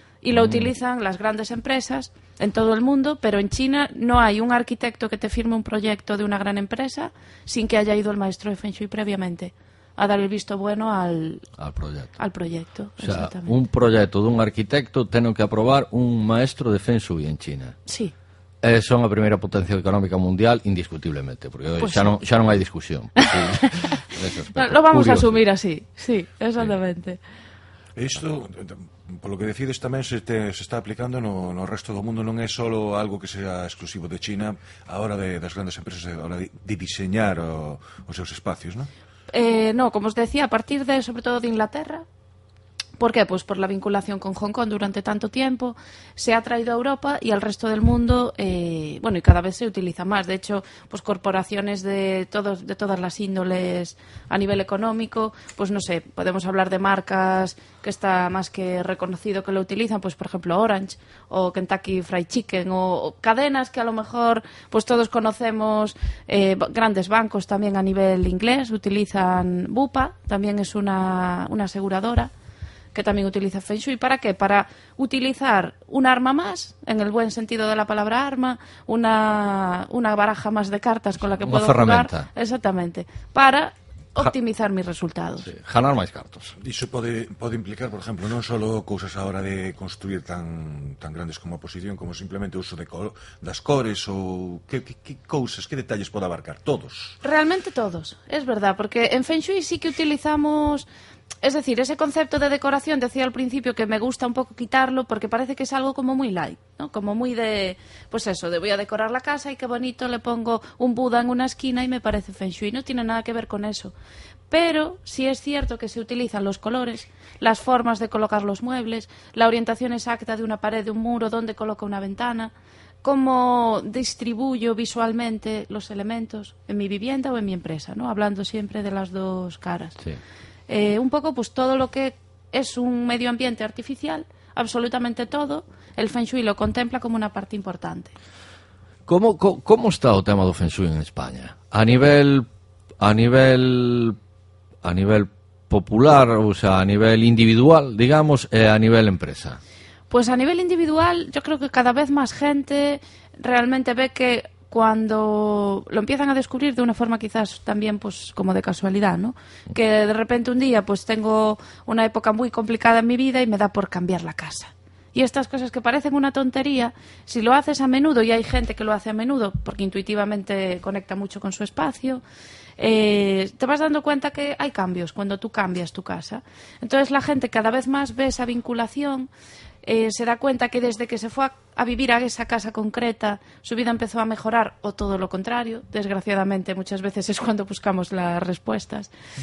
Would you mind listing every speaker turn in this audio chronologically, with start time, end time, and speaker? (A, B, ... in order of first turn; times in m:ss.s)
0:00.2-0:11.4 A
0:00.3-0:00.7 B
0:11.6-0:12.1 B
0:12.2-0:13.6 A
0:13.0-0:17.8 B
0:17.8-0:18.1 A
0:18.6-0:25.4 B
0:21.8-0:22.1 A
0:23.2-0:23.7 A
0:24.5-0:27.2 A
0:28.0-0:38.9 C
0:39.3-0:42.0 A
0:43.0-1:12.3 A
1:12.9-1:25.5 A
1:21.4-1:22.3 B
1:25.4-1:26.6 B
1:26.6-1:37.2 C
1:37.2-1:40.9 A
1:41.4-1:53.9 A
1:54.5-2:02.5 A
2:03.0-2:09.9 A
2:10.7-2:18.1 A
2:19.1-2:22.5 B
2:23.0-2:24.2 B
2:24.8-2:29.6 B
2:30.1-2:52.2 A
2:52.8-2:59.3 A
2:59.8-3:09.1 A